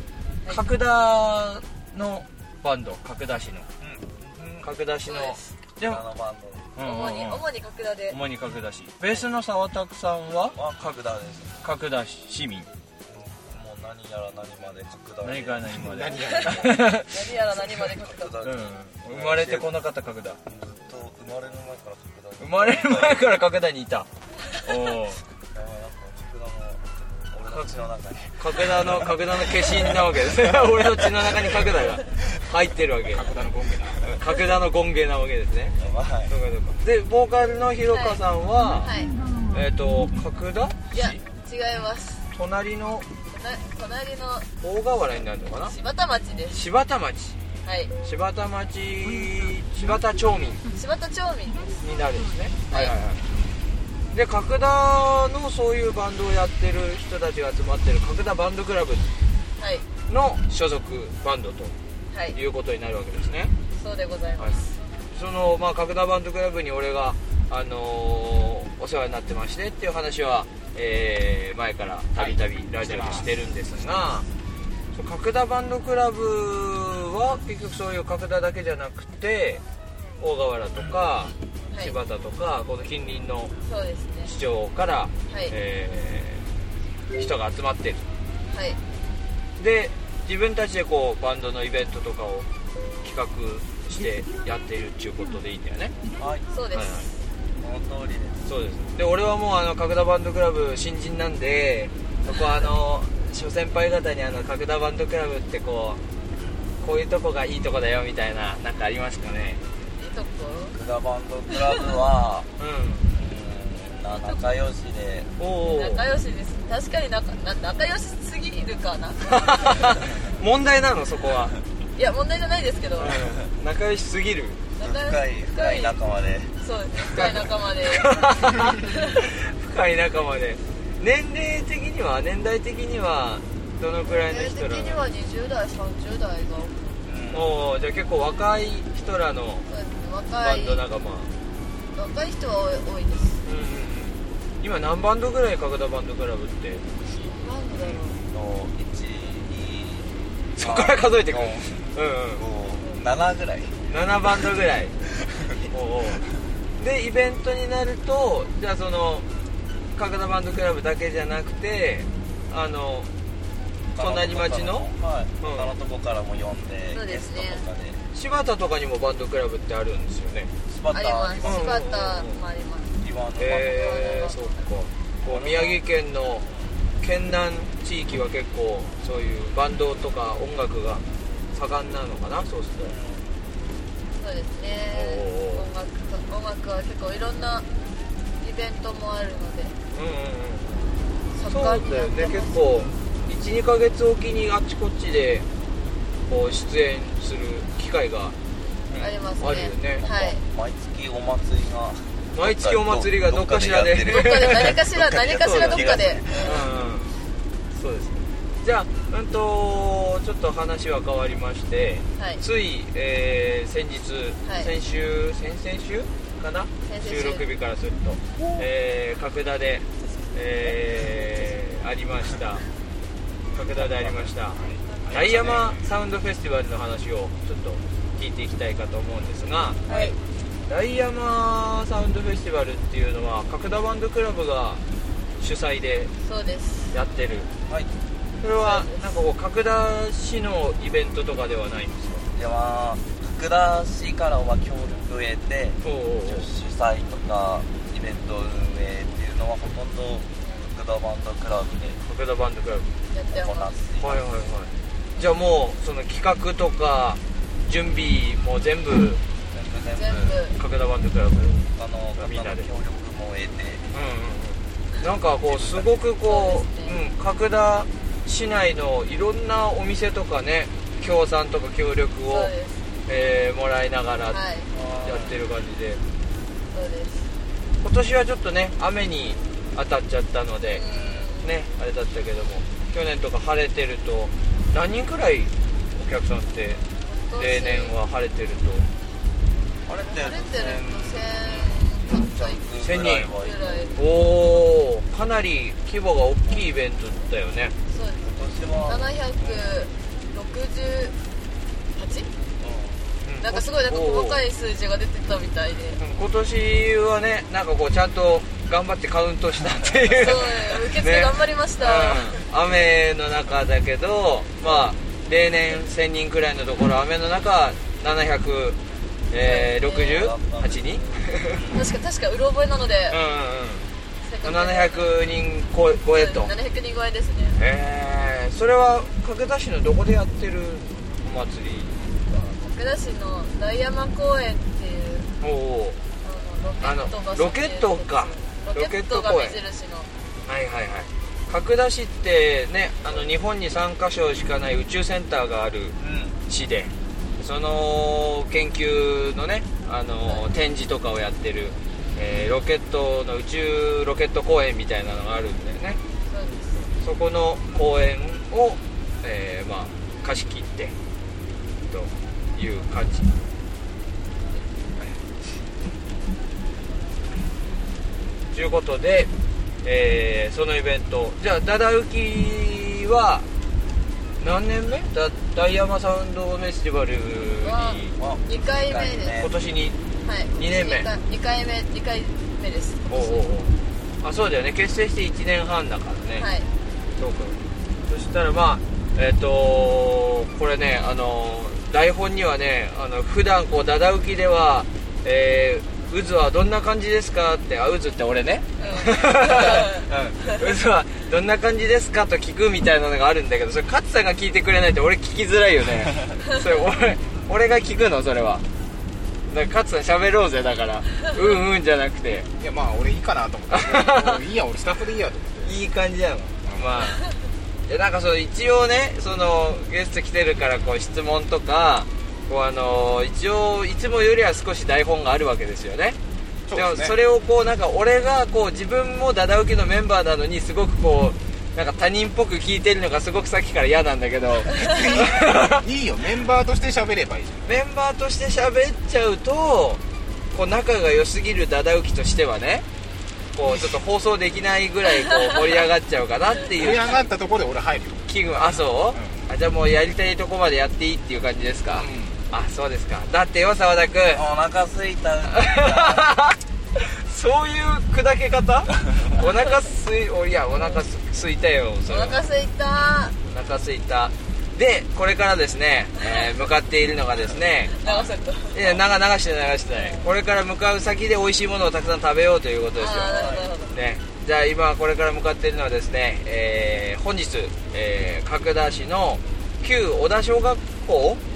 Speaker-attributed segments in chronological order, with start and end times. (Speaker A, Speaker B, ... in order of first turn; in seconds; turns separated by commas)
Speaker A: 0.5-3.7, Speaker B: 3.8-4.7, Speaker A: 4.6-6.0, Speaker C: 5.1-5.4, Speaker B: 5.8-6.7, Speaker A: 6.8-7.4, Speaker C: 6.8-8.2, Speaker A: 8.1-10.6, Speaker B: 10.6-11.6, Speaker A: 11.6-12.7, Speaker B: 13.1-15.8, Speaker A: 15.2-17.1, Speaker D: 15.7-16.9, Speaker C: 16.1-18.3, Speaker B: 17.2-19.7, Speaker A: 18.4-20.4, Speaker B: 20.5-23.4, Speaker A: 22.4-25.2, Speaker B: 25.5-30.8, Speaker A: 27.5-27.8, Speaker A: 28.4-33.3, Speaker D: 33.0-34.1, Speaker A: 34.1-35.8, Speaker B: 35.8-36.4, Speaker A: 36.3-39.0, Speaker C: 37.9-38.2, Speaker C: 38.8-39.1, Speaker A: 39.5-41.1, Speaker C: 40.9-42.3, Speaker A: 42.3-43.1, Speaker C: 43.3-44.5, Speaker A: 44.6-45.8, Speaker C: 45.6-46.6, Speaker A: 46.5-47.4, Speaker C: 47.6-47.9, Speaker A: 48.0-50.6, Speaker C: 50.7-51.8, Speaker A: 51.8-53.2, Speaker C: 52.7-53.0, Speaker A: 54.1-59.1, Speaker C: 59.6-59.9, Speaker A: 60.1-61.7, Speaker C: 62.1-62.4, Speaker A: 62.3-63.5, Speaker C: 63.8-64.8, Speaker A: 64.4-74.3, Speaker D: 72.2-73.4, Speaker A: 74.9-79.6, Speaker A: 80.2-83.5, Speaker C: 83.7-84.3, Speaker A: 84.2-86.5, Speaker C: 85.3-85.5, Speaker A: 87.2-88.0, Speaker C: 88.5-88.8, Speaker A: 89.6-92.5, Speaker A: 93.0-95.9, Speaker B: 96.2-96.5, Speaker C: 96.5-97.2, Speaker A: 96.7-97.1, Speaker B: 97.6-98.4, Speaker A: 98.5-106.0, Speaker A: 106.8-109.6, Speaker C: 110.0-110.8, Speaker B: 110.7-112.5, Speaker A: 112.6-113.1, Speaker B: 113.1-115.3, Speaker C: 114.2-114.4, Speaker A: 115.4-116.0, Speaker C: 115.7-120.0, Speaker A: 119.2-121.5, Speaker C: 122.0-123.2, Speaker A: 123.0-124.6, Speaker B: 123.0-123.5, Speaker C: 124.8-126.0, Speaker B: 124.8-126.5, Speaker C: 126.6-129.2, Speaker A: 127.1-135.0, Speaker C: 134.1-136.9, Speaker B: 137.0-137.6, Speaker A: 137.3-139.7, Speaker C: 139.7-140.8, Speaker A: 140.4-141.3, Speaker C: 141.9-143.4, Speaker A: 143.4-146.8, Speaker C: 147.2-148.2, Speaker B: 148.3-153.8, Speaker A: 150.6-152.4, Speaker A: 153.9-154.9, Speaker B: 155.1-155.7, Speaker A: 155.7-156.2, Speaker A: 156.8-159.3, Speaker A: 160.0-163.1, Speaker B: 163.9-168.0, Speaker A: 164.0-164.9, Speaker A: 165.4-165.7, Speaker C: 166.9-167.7, Speaker A: 168.1-170.5, Speaker B: 170.7-171.8, Speaker C: 170.9-173.0, Speaker A: 171.4-172.4, Speaker B: 173.0-174.2, Speaker A: 173.4-176.5, Speaker C: 173.7-174.6, Speaker B: 175.3-175.8, Speaker B: 176.4-176.8, Speaker A: 177.0-182.9, Speaker B: 182.8-183.4, Speaker C: 184.2-187.7, Speaker A: 184.9-185.7, Speaker C: 188.4-189.8, Speaker A: 189.9-190.9, Speaker C: 191.3-192.9, Speaker A: 191.5-195.5, Speaker A: 196.3-198.4, Speaker C: 198.8-200.4, Speaker A: 198.9-200.1, Speaker B: 200.0-206.7, Speaker A: 202.3-207.1, Speaker C: 204.1-206.7, Speaker A: 207.7-222.7, Speaker C: 212.2-212.4, Speaker C: 216.9-217.4, Speaker A: 223.5-230.0, Speaker D: 224.5-225.8, Speaker C: 229.9-230.2, Speaker A: 230.7-234.8, Speaker A: 235.4-236.1, Speaker C: 236.2-236.9, Speaker A: 236.9-237.5, Speaker B: 237.7-237.9, Speaker A: 238.4-242.3, Speaker C: 238.5-239.2, Speaker B: 242.3-252.0, Speaker A: 245.8-246.5, Speaker C: 250.4-250.7, Speaker A: 251.9-252.9, Speaker C: 253.1-253.7, Speaker B: 253.3-254.3, Speaker A: 254.0-259.2, Speaker B: 259.5-260.4, Speaker C: 259.9-260.6, Speaker A: 260.5-261.6, Speaker B: 261.6-263.9, Speaker A: 262.2-262.7, Speaker A: 263.9-272.5, Speaker B: 265.5-265.9, Speaker C: 266.2-267.0, Speaker C: 272.3-272.9, Speaker A: 273.1-274.4, Speaker C: 274.3-274.7, Speaker B: 274.7-275.4, Speaker A: 275.0-276.0, Speaker C: 276.7-277.3, Speaker A: 277.8-286.8, Speaker C: 280.7-281.5, Speaker B: 280.9-281.3, Speaker C: 287.1-287.9, Speaker A: 287.4-288.9, Speaker B: 289.9-294.3, Speaker C: 290.1-294.0, Speaker A: 292.8-293.3, Speaker A: 294.0-297.8, Speaker C: 297.9-298.3, Speaker B: 298.2-299.8, Speaker C: 298.9-301.2, Speaker C: 302.0-302.3, Speaker B: 302.6-303.1, Speaker A: 303.2-304.4, Speaker C: 303.4-306.0, Speaker A: 306.0-318.8, Speaker B: 310.0-310.3, Speaker C: 310.2-312.4, Speaker A: 319.3-321.6, Speaker C: 319.4-320.3, Speaker B: 320.0-321.9, Speaker C: 321.7-323.2, Speaker A: 323.1-323.9, Speaker C: 324.2-325.1, Speaker A: 324.4-326.5, Speaker C: 326.1-327.6, Speaker A: 327.6-331.9, Speaker C: 332.3-335.3, Speaker A: 335.4-336.0, Speaker C: 336.2-340.1, Speaker A: 336.8-339.6, Speaker A: 340.5-356.0, Speaker B: 346.0-346.4, Speaker C: 356.3-356.9, Speaker A: 356.9-360.9, Speaker A: 361.9-363.3, Speaker A: 368.5-369.3, Speaker A: 369.8-373.5, Speaker A: 374.4-378.1, Speaker C: 377.6-379.4, Speaker B: 378.2-379.5, Speaker A: 379.4-380.0, Speaker C: 380.2-383.5, Speaker A: 380.6-381.1, Speaker A: 383.1-386.5, Speaker C: 386.4-386.7, Speaker A: 387.2-408.6, Speaker C: 398.8-400.1, Speaker A: 409.5-412.5, Speaker D: 412.6-415.8, Speaker A: 413.7-414.4, Speaker A: 415.6-417.2, Speaker D: 416.6-417.0, Speaker A: 417.9-426.2, Speaker D: 426.7-427.2, Speaker A: 426.7-435.8, Speaker D: 434.7-437.8, Speaker A: 437.6-442.9, Speaker A: 443.5-447.2, Speaker D: 443.7-443.9, Speaker D: 446.7-448.2, Speaker A: 448.3-454.4, Speaker D: 449.1-449.4, Speaker D: 451.9-452.4, Speaker B: 454.3-456.4, Speaker A: 455.5-462.4, Speaker C: 462.1-463.4, Speaker A: 463.4-468.0, Speaker C: 467.9-468.8, Speaker A: 468.7-481.4, Speaker C: 469.9-470.2, Speaker C: 473.0-473.9, Speaker B: 473.2-473.7